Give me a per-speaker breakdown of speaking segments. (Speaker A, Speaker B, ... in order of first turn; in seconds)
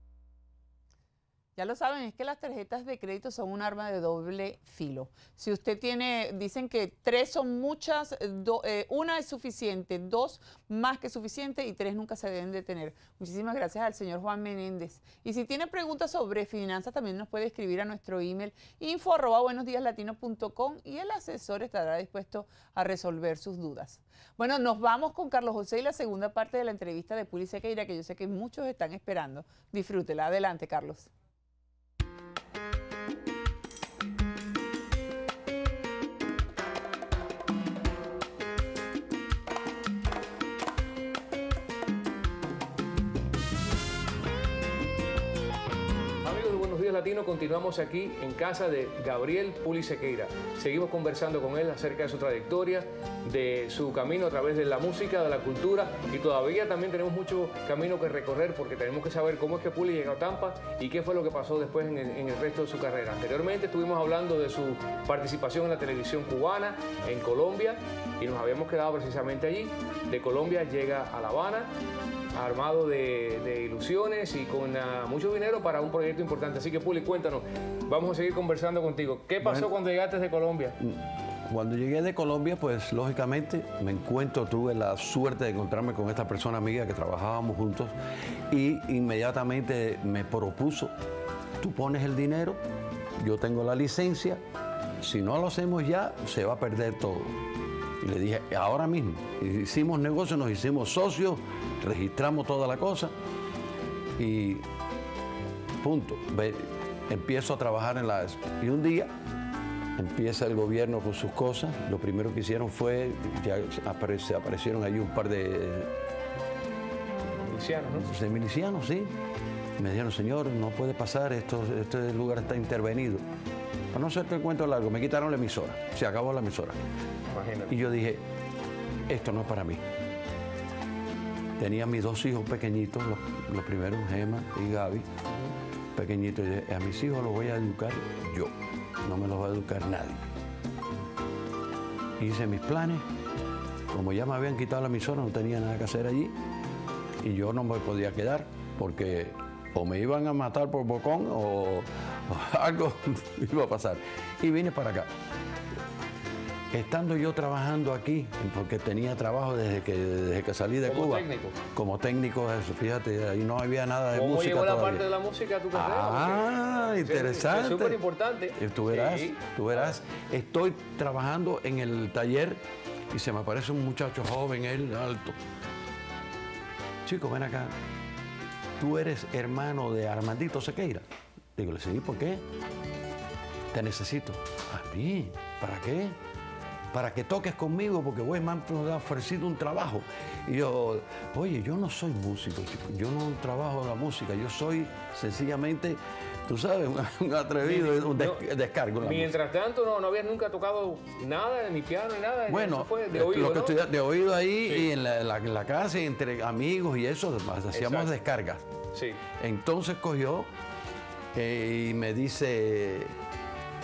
Speaker A: 1.6-31.1
Speaker B: 46.2-71.7, 72.3-80.8, 117.4-118.1, 127.3-127.7, 160.8-161.6, 164.1-170.0, 197.6-198.4, 199.0-203.8, 204.6-204.9, 207.7-208.2, 208.9-209.2
Speaker C: 79.4-79.7, 80.8-87.9, 88.5-90.9, 91.6-92.6, 93.2-94.4, 95.0-97.3, 98.0-103.1, 104.2-104.6, 105.8-109.1, 110.0-115.9, 118.0-119.1, 119.8-123.2, 123.9-126.8, 127.7-128.2, 129.1-129.8, 131.6-135.1, 135.9-138.5, 139.0-140.2, 142.2-143.0, 143.9-146.3, 147.2-155.1, 156.7-165.1, 165.7-168.0, 168.6-172.6, 173.1-175.4, 177.0-177.7, 178.8-181.0, 181.6-182.4, 183.7-186.2, 186.9-199.3, 202.5-208.6, 209.4-210.5, 211.3-213.1